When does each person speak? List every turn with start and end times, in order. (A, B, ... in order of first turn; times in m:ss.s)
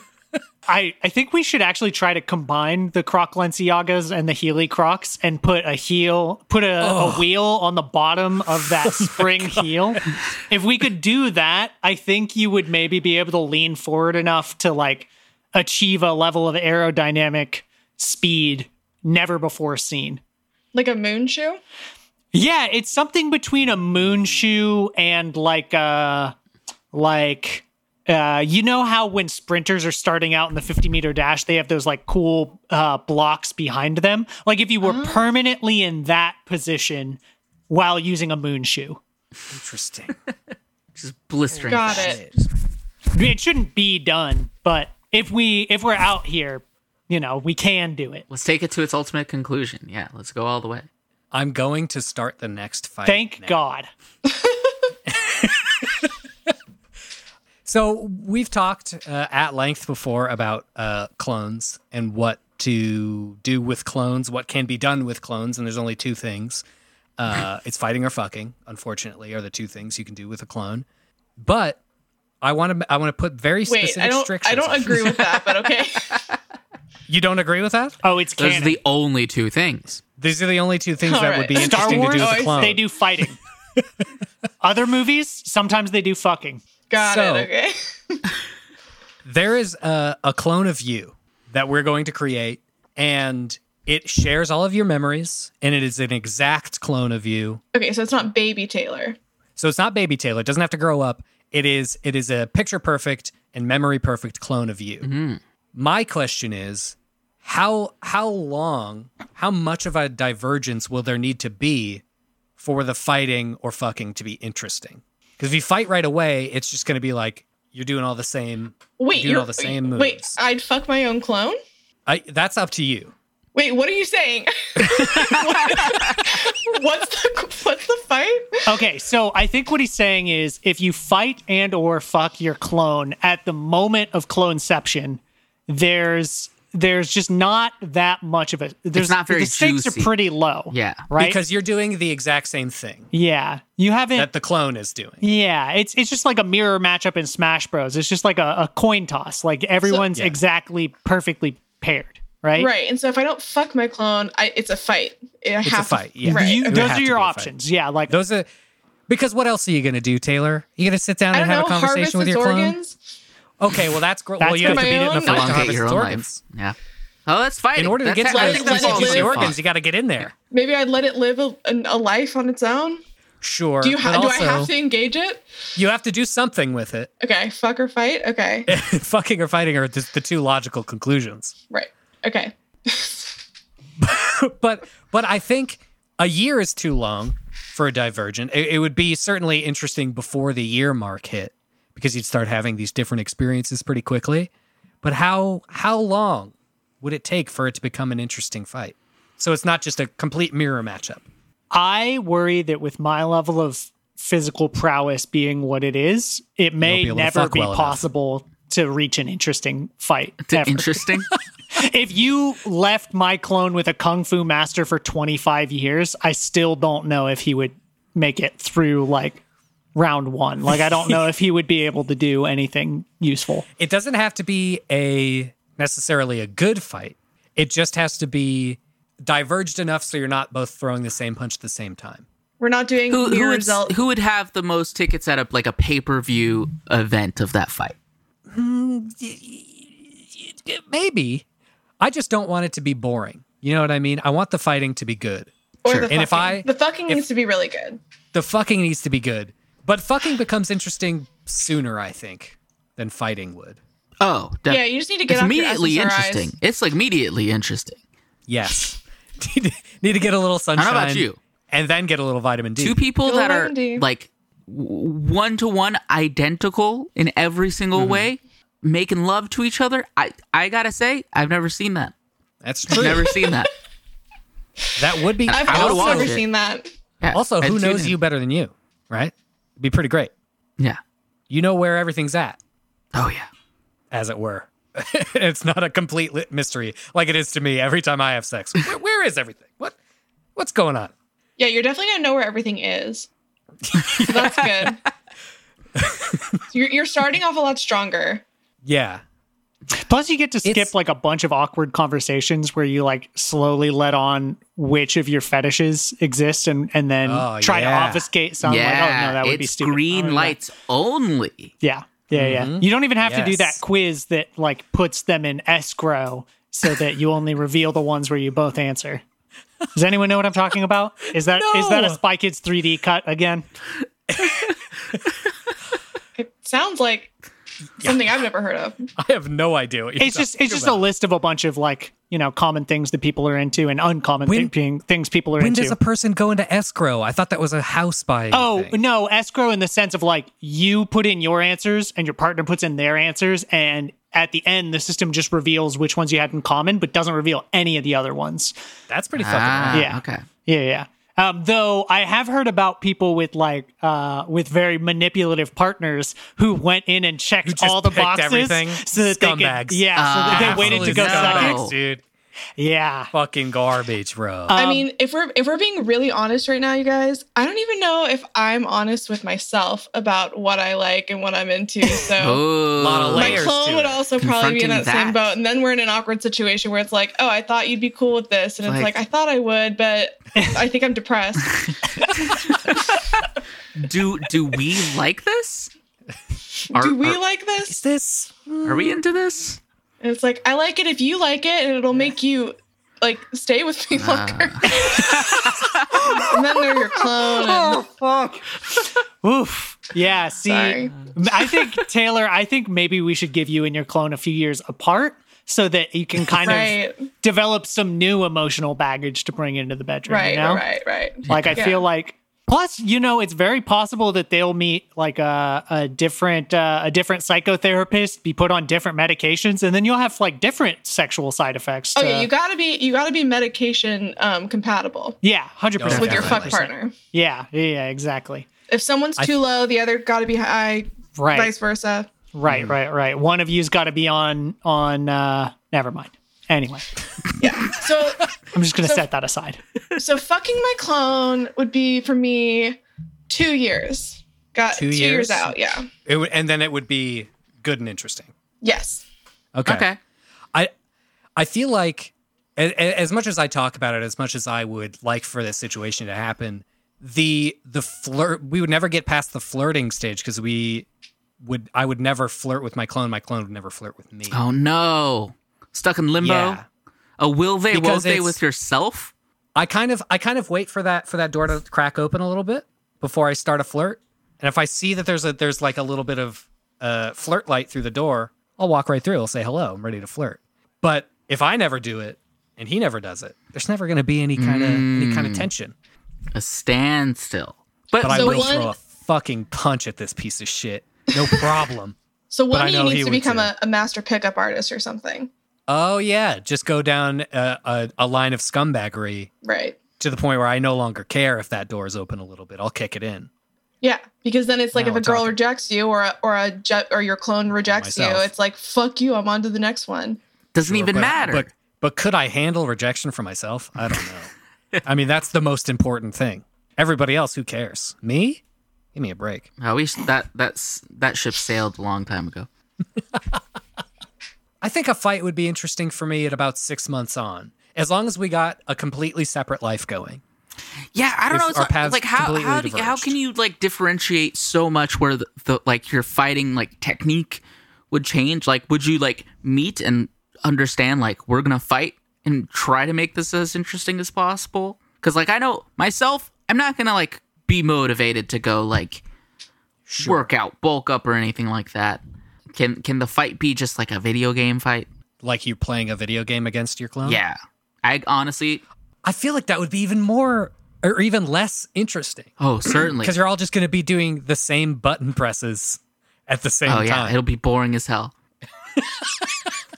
0:00.7-0:20.2 A
0:06.8-0:07.3 B
0:08.8-0:10.0 B
0:20.7-0:21.6 C
0:22.3-0:26.3 A
0:26.9-0:39.0 A
0:34.8-0:35.2 C
0:39.5-0:40.2 B
0:41.0-0:42.5 D
0:41.5-0:42.3 B
0:41.7-0:42.2 C
0:43.1-0:48.2 A
0:48.3-0:50.8 D
0:51.3-0:53.6 B
0:53.0-0:53.9 A
0:55.1-0:56.1 B
0:57.6-1:06.6 B
1:07.2-1:10.8 B
1:11.4-1:11.8 B
1:12.4-1:15.3 B
1:13.6-1:16.2 C
1:17.1-1:18.0 B
1:18.0-1:18.8 A
1:18.4-1:20.0 D
1:20.2-1:22.8 B
1:21.0-1:22.8 C
1:21.6-1:23.4 A
1:24.6-1:26.6 A
1:26.9-1:28.2 C
1:27.0-1:27.5 B
1:29.2-1:37.6 B
1:37.7-1:39.2 C
1:39.6-1:45.1 B
1:45.0-1:45.4 D
1:45.7-1:52.0 B
1:52.6-2:00.4 B
1:59.0-2:01.6 C
2:02.1-2:03.1 B
2:03.5-2:08.8 C
2:08.6-2:21.4 A
2:18.9-2:20.1 D
2:20.7-2:21.1 D
2:21.2-2:23.1 B
2:23.1-2:24.3 A
2:24.1-2:25.2 B
2:25.2-2:32.7 A
2:32.6-2:36.9 C
2:35.6-2:37.5 B
2:36.2-2:38.1 A
2:38.1-2:38.5 B
2:39.1-2:42.8 B
2:41.3-2:43.0 C
2:43.6-2:46.4 B
2:44.4-2:45.1 A
2:44.6-2:45.8 C
2:45.2-2:49.6 D
2:47.8-2:50.3 B
2:48.2-2:49.6 C
2:50.5-2:53.0 C
2:53.4-2:54.7 B
2:53.8-2:55.4 C
2:55.8-2:57.1 B
2:57.2-2:58.7 C
2:58.7-3:01.5 B
3:01.7-3:03.3 C
3:04.0-3:14.5 B
3:15.0-3:21.2 B
3:21.7-3:31.0 A
3:26.8-3:28.0 B
3:30.5-3:31.3 D
3:31.7-3:39.4 A
3:39.9-3:43.6 A
3:43.8-3:52.2 B
3:52.6-3:53.9 C
3:53.1-3:57.9 D
3:58.5-4:01.4 B
4:02.0-4:05.5 B
4:05.8-4:08.0 C
4:05.8-4:06.1 D
4:06.1-4:07.2 B
4:08.3-4:13.8 B
4:14.2-4:18.0 D
4:14.7-4:16.5 C
4:18.5-4:23.0 B
4:20.8-4:21.4 D
4:22.8-4:32.1 D
4:23.2-4:24.0 C
4:27.9-4:28.3 B
4:32.6-4:33.4 B
4:32.9-4:33.7 D
4:35.0-4:36.4 B
4:35.5-4:36.4 D
4:35.5-4:36.8 C
4:37.2-4:38.1 D
4:37.3-4:40.3 B
4:41.5-4:42.6 B
4:43.1-4:43.5 D
4:44.1-4:50.0 B
4:50.6-4:51.1 B
4:51.6-4:53.3 C
4:53.8-4:54.6 B
4:54.2-4:55.0 C
4:56.0-4:56.6 B
4:56.7-4:58.4 C
4:58.8-4:59.2 B
4:59.9-5:10.6 A
5:00.6-5:00.9 B
5:07.2-5:08.3 B
5:08.6-5:11.7 D
5:11.8-5:19.2 A
5:12.3-5:13.8 B
5:19.9-5:23.6 A
5:21.5-5:22.2 B
5:24.3-5:24.6 B
5:26.4-5:27.3 C
5:28.0-5:28.2 B
5:28.0-5:29.1 C
5:29.2-5:31.0 B
5:30.2-5:36.0 A
5:34.4-5:34.7 B
5:35.6-5:39.0 B
5:38.5-5:48.7 A
5:49.1-5:50.1 B
5:49.4-5:50.4 D
5:49.9-6:01.8 A
5:57.6-6:02.2 B
6:00.2-6:01.9 D
6:02.8-6:03.3 A
6:03.3-6:04.8 B
6:04.7-6:05.1 A
6:04.7-6:12.6 C
6:12.4-6:13.7 D
6:13.0-6:14.2 B
6:13.3-6:22.4 C
6:14.4-6:15.5 D
6:18.8-6:19.2 D
6:22.5-6:23.2 D
6:24.0-6:25.9 D
6:26.9-6:28.0 C
6:26.9-6:27.4 D
6:27.9-6:29.2 B
6:28.8-6:29.8 D
6:30.2-6:35.6 C
6:34.1-6:36.1 D
6:35.3-6:35.6 B
6:36.3-6:38.0 C
6:37.5-6:38.6 A
6:39.4-6:50.8 A
6:40.6-6:41.1 C
6:46.6-6:47.3 C
6:50.3-6:52.0 C
6:51.4-6:51.8 D
6:51.5-7:02.5 A
7:02.2-7:05.4 C
7:05.4-7:08.6 A
7:06.0-7:06.8 B
7:06.1-7:07.1 C
7:08.9-7:12.3 C
7:11.3-7:11.7 A
7:12.5-7:17.0 A
7:12.7-7:12.9 B
7:17.6-7:19.2 C
7:18.7-7:19.8 A
7:20.2-7:26.1 C
7:24.9-7:25.7 B
7:26.2-7:28.5 B
7:28.8-7:29.2 C
7:29.7-7:30.1 B
7:29.8-7:30.2 D
7:31.6-7:41.0 B
7:41.6-7:44.6 B
7:44.5-7:46.8 D
7:46.4-7:46.8 B
7:47.4-7:49.3 D
7:47.9-7:48.6 B
7:49.7-8:05.9 B
8:04.6-8:05.7 D
8:06.5-8:08.7 D
8:08.2-8:12.2 B
8:08.3-8:08.9 C
8:12.5-8:15.5 C
8:12.7-8:13.7 B
8:15.9-8:19.5 B
8:19.6-8:20.0 C
8:20.2-8:23.5 B
8:24.0-8:30.4 C
8:24.9-8:25.6 B
8:27.8-8:28.5 B
8:30.7-8:31.7 D
8:30.8-8:34.5 B
8:35.0-8:38.6 B
8:39.1-8:39.7 B
8:39.8-8:42.7 D
8:44.8-8:50.4 B
8:51.1-9:09.2 D
8:51.5-8:53.4 B
9:10.1-9:10.5 B
9:10.2-9:12.2 D
9:12.7-9:15.1 D
9:15.4-9:17.4 B
9:17.2-9:18.8 D
9:19.2-9:27.4 B
9:22.6-9:23.3 D
9:26.8-9:28.3 D
9:29.0-9:29.4 B